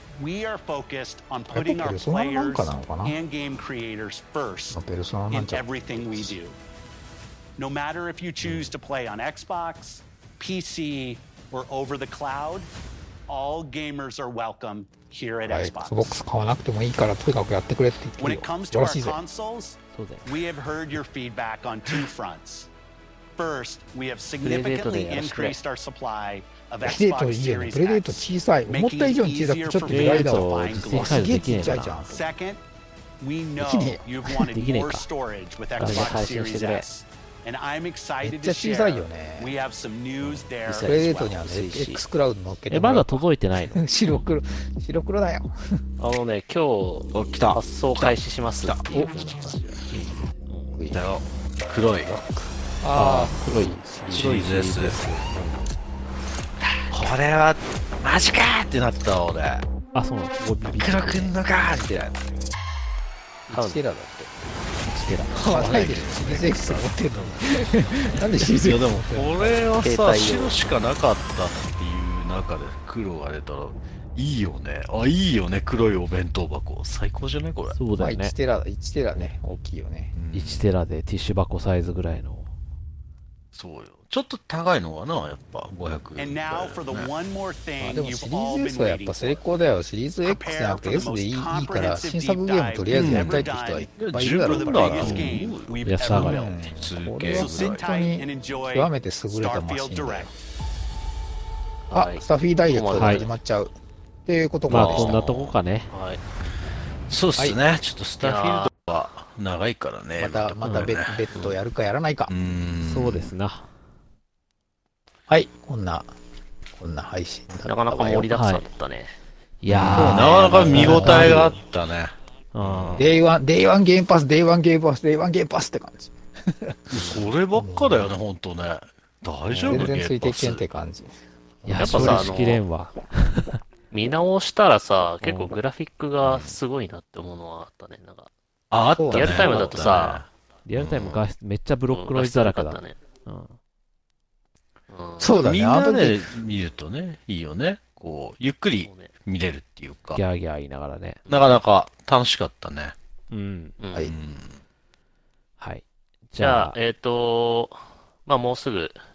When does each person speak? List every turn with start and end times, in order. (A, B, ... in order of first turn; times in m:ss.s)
0:00.2-0:06.6 A
0:01.5-0:03.2 B
0:04.7-0:06.3 B
0:07.6-0:12.7 A
0:13.3-0:16.2 A
0:15.4-0:19.2 B
0:18.2-0:22.7 A
0:19.9-0:20.3 C
0:23.4-0:32.6 A
0:24.4-0:25.6 D
0:26.8-0:32.3 B
0:29.9-0:32.1 C
0:33.2-0:41.5 A
0:33.6-0:34.3 B
0:34.5-0:35.1 C
0:35.8-0:36.9 D
0:35.8-0:36.3 C
0:38.2-0:39.6 B
0:40.7-0:45.6 B
0:40.7-0:42.0 D
0:42.7-0:43.8 C
0:46.0-0:49.6 D
0:47.1-0:48.8 E
0:48.9-0:49.6 B
0:48.9-0:50.8 C
0:50.8-0:51.1 B
0:50.9-0:52.1 E
0:52.0-0:54.4 B
0:52.9-0:55.7 C
0:54.1-0:55.0 E
0:56.9-0:59.7 E
0:59.9-1:01.4 C
1:00.6-1:02.4 E
1:03.5-1:04.4 B
1:03.5-1:03.8 D
1:04.9-1:05.4 C
1:05.3-1:07.0 E
1:05.3-1:09.9 B
1:08.4-1:17.8 E
1:09.8-1:10.6 D
1:17.8-1:18.4 C
1:18.0-1:20.1 B
1:20.1-1:20.7 E
1:20.3-1:22.5 C
1:23.5-1:27.1 E
1:26.2-1:29.4 A
1:27.8-1:35.3 B
1:30.2-1:33.9 A
1:32.9-1:35.9 E
1:34.5-1:36.7 A
1:35.8-1:36.5 C
1:36.1-1:40.3 B
1:36.7-1:37.9 E
1:37.3-1:40.3 A
1:41.9-1:43.3 D
1:41.9-1:43.7 B
1:43.0-1:43.2 C
1:44.3-1:45.2 B
1:44.7-1:45.9 C
1:44.7-1:45.6 E
1:45.9-1:46.2 D
1:47.1-1:51.3 E
1:48.2-1:48.7 D
1:50.2-1:52.3 B
1:50.6-1:50.9 C
1:52.3-1:53.3 E
1:52.8-1:53.7 C
1:55.3-1:56.1 B
1:56.8-1:58.3 B
1:57.6-1:59.2 D
1:58.3-1:58.7 C
1:59.6-2:01.5 C
1:59.7-2:03.0 E
1:59.9-2:01.6 B
2:02.5-2:03.1 C
2:03.0-2:08.1 B
2:06.9-2:10.6 E
2:07.0-2:07.2 D
2:09.5-2:09.9 C
2:09.7-2:11.1 B
2:11.6-2:13.6 C
2:11.7-2:12.3 B
2:11.8-2:12.6 D
2:13.9-2:18.3 D
2:15.2-2:15.6 C
2:16.2-2:16.6 E
2:18.7-2:21.2 E
2:19.0-2:19.8 B
2:19.1-2:20.3 D
2:20.6-2:23.6 C
2:21.9-2:23.0 D
2:24.9-2:25.4 D
2:25.2-2:26.2 B
2:25.4-2:30.2 E
2:28.8-2:29.1 D
2:30.1-2:31.2 C
2:31.3-2:31.6 D
2:31.3-2:33.0 E
2:33.3-2:33.8 C
2:33.8-2:34.1 D
2:34.0-2:34.6 E
2:35.6-2:36.8 C
2:36.4-2:39.0 D